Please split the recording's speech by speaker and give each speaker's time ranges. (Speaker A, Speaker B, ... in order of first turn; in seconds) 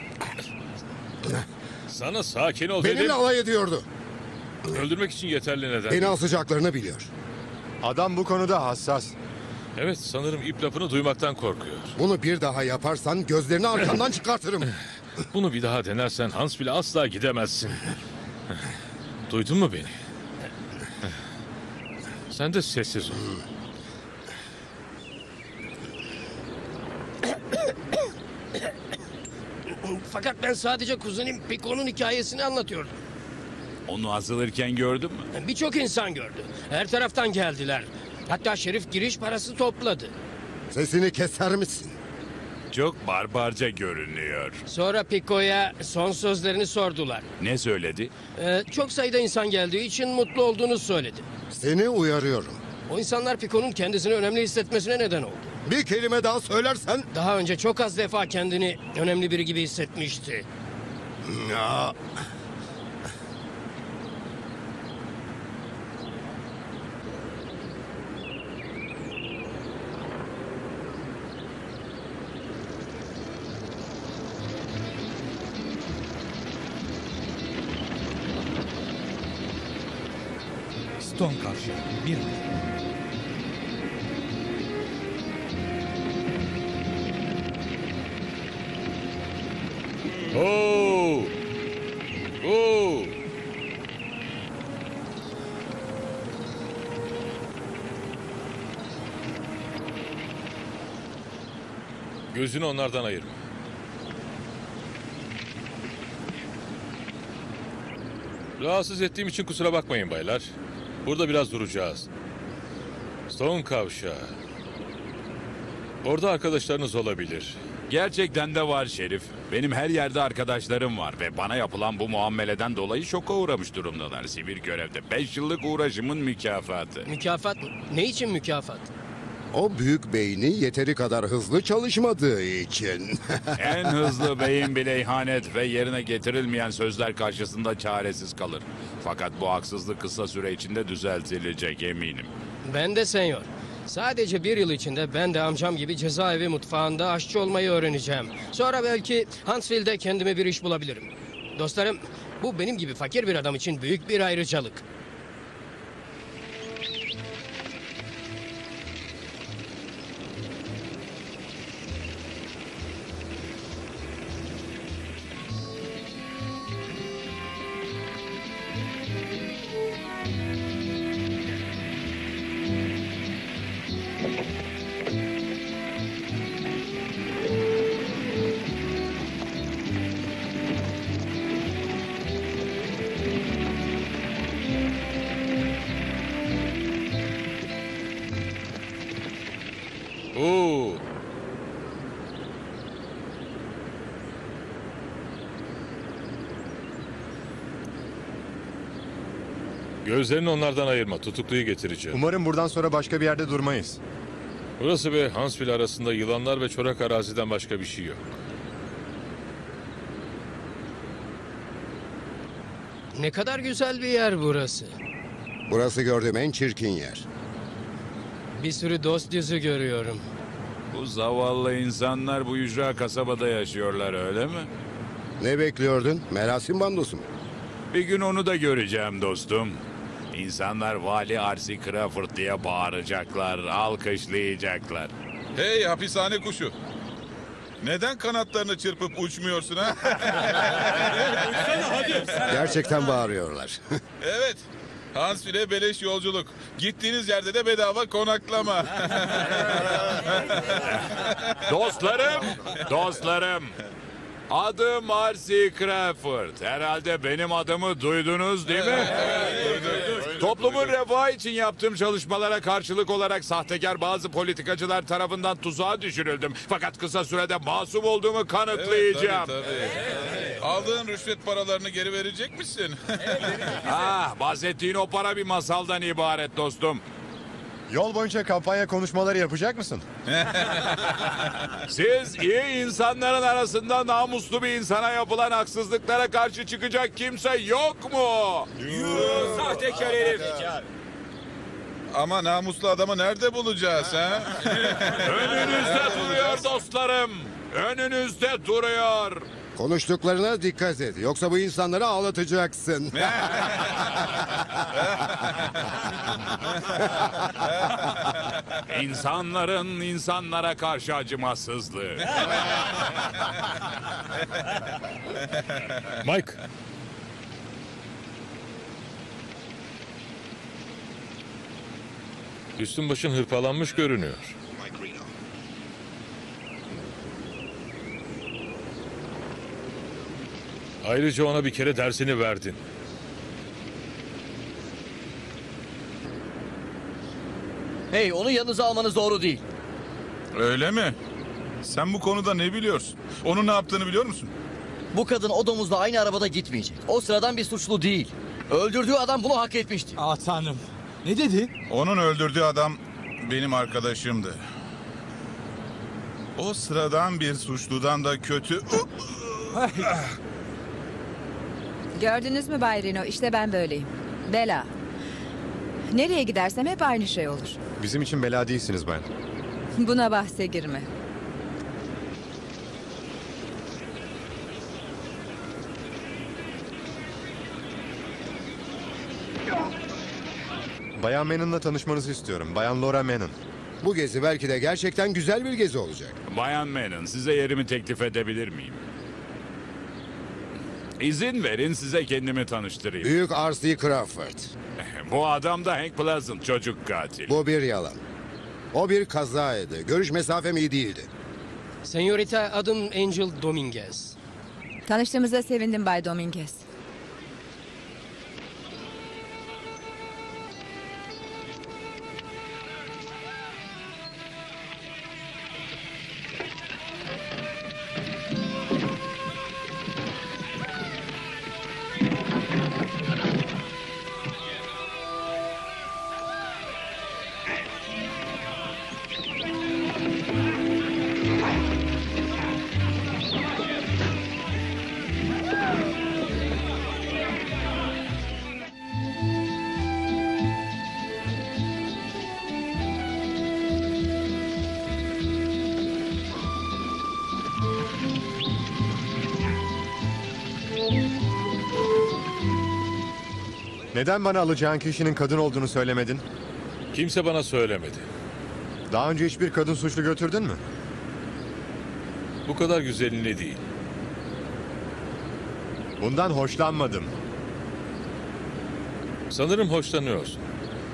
Speaker A: 1.9-3.2, 4.7-6.2, 9.8-12.0, 15.3-17.8, 19.3-19.9, 22.3-23.3, 90.3-91.3, 92.4-93.2, 102.3-103.3, 108.6-110.5, 111.0-112.1, 113.3-114.3, 116.0-117.6, 190.3-191.0, 200.0-202.2, 204.8-208.4, 316.2-316.6, 322.8-324.6, 331.0-332.8, 457.1-458.3, 462.6-463.8, 469.5-470.6
Speaker B: 2.8-3.9, 5.9-7.1, 12.0-14.7, 40.7-41.9, 51.5-52.6, 55.6-57.0, 61.2-62.0, 129.5-134.2, 215.7-217.2, 225.4-227.2, 242.4-243.8, 299.8-303.4, 384.0-386.4, 393.2-394.7, 397.5-398.2, 398.9-401.3
Speaker C: 7.8-9.1, 202.1-204.0, 277.9-280.0, 368.0-369.2, 381.1-383.5, 454.1-456.4, 459.1-460.8, 466.2-467.3
Speaker D: 29.7-32.9, 35.3-40.1, 44.7-47.2, 48.4-51.2, 52.9-55.5, 57.1-60.5, 127.0-128.9, 142.6-154.8, 213.2-214.9, 218.6-220.2, 402.0-404.3
Speaker E: 33.9-35.3, 42.7-44.6, 47.4-48.1, 117.9-127.1, 133.6-142.3, 220.9-224.7, 227.9-229.8, 230.3-235.1, 251.7-253.7, 254.5-269.5, 273.8-277.0, 281.9-290.5, 295.0-299.4, 308.9-312.4, 386.5-389.0, 391.2-393.3, 395.0-397.5
Speaker F: 81.0-82.4, 350.2-351.7, 359.8-360.0
Speaker G: 235.6-236.7, 237.8-241.4, 244.2-250.4, 258.7-260.9, 268.7-273.8, 280.3-281.0, 288.8-289.9, 292.1-296.6, 303.2-303.8, 340.5-341.1, 341.8-344.5, 351.9-354.6, 356.6-359.6
Speaker H: 338.1-339.6, 345.1-350.2
Speaker I: 362.1-364.9, 366.1-367.8, 370.0-371.1, 405.1-406.8